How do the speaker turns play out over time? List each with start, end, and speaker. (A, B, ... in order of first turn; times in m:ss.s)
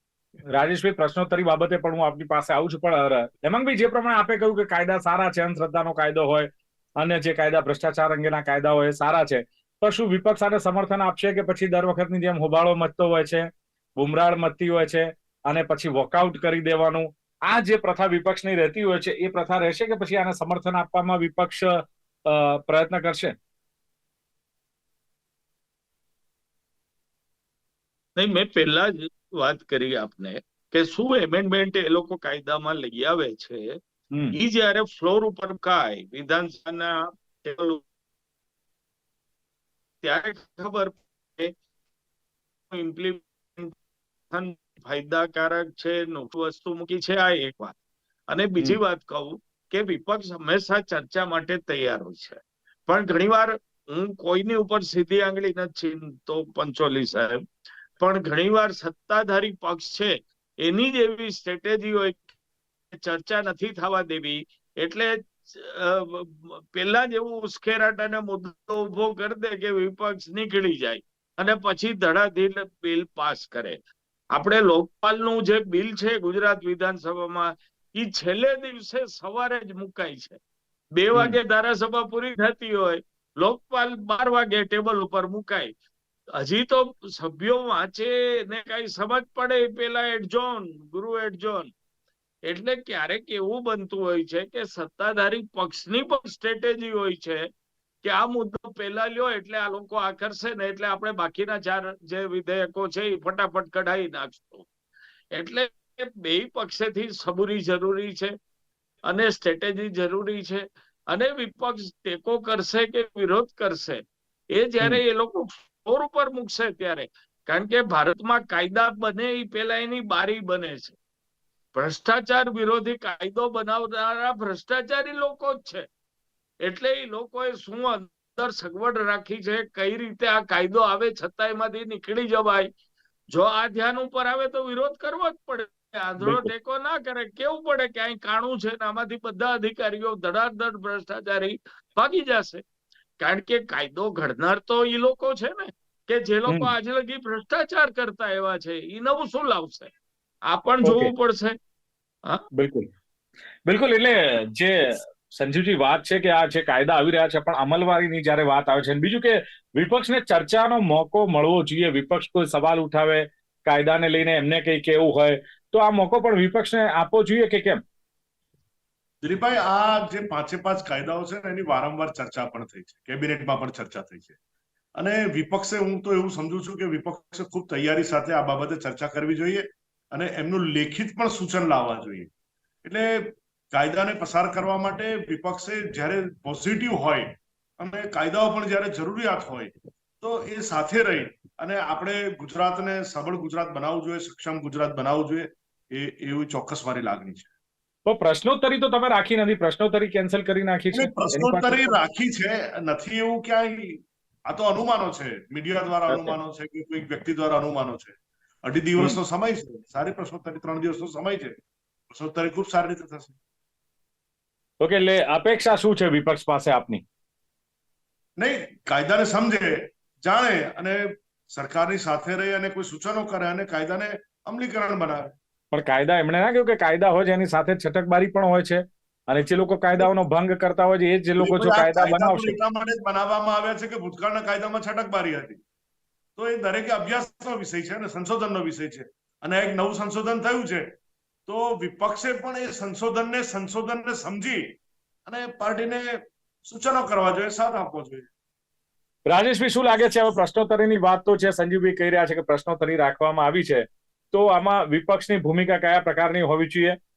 0:00.5-0:23.4 A
0:28.2-0:33.8 B
0:34.1-0:34.4 A
0:34.3-0:37.8 B
0:40.0-0:41.5 B
0:42.7-0:43.8 B
0:44.3-0:47.8 B
0:48.3-0:57.4 B
0:58.0-1:02.3 B
1:02.9-1:13.8 B
1:14.3-1:20.4 B
1:21.0-1:25.7 B
1:26.3-1:31.7 B
1:32.4-1:37.5 B
1:38.0-1:44.7 B
1:45.3-1:48.3 B
1:49.0-2:01.0 B
2:01.7-2:05.9 B
2:06.6-2:12.7 B
2:13.3-2:22.6 B
2:16.2-2:16.5 A
2:23.2-2:29.9 B
2:30.5-2:31.6 B
2:30.8-2:31.1 A
2:32.5-2:32.9 A
2:33.6-2:47.8 A
2:49.2-2:54.3 C
2:55.0-3:02.3 C
3:02.8-3:17.5 C
3:18.0-3:22.0 A
3:20.9-3:31.5 C
3:26.1-3:26.3 A
3:32.1-3:33.4 C
3:34.8-3:37.0 A
3:38.4-3:45.3 C
3:45.7-3:52.6 A
3:51.4-3:55.6 C
3:56.4-4:00.9 C
4:01.5-4:04.7 C
4:05.2-4:08.3 C
4:09.2-4:17.0 A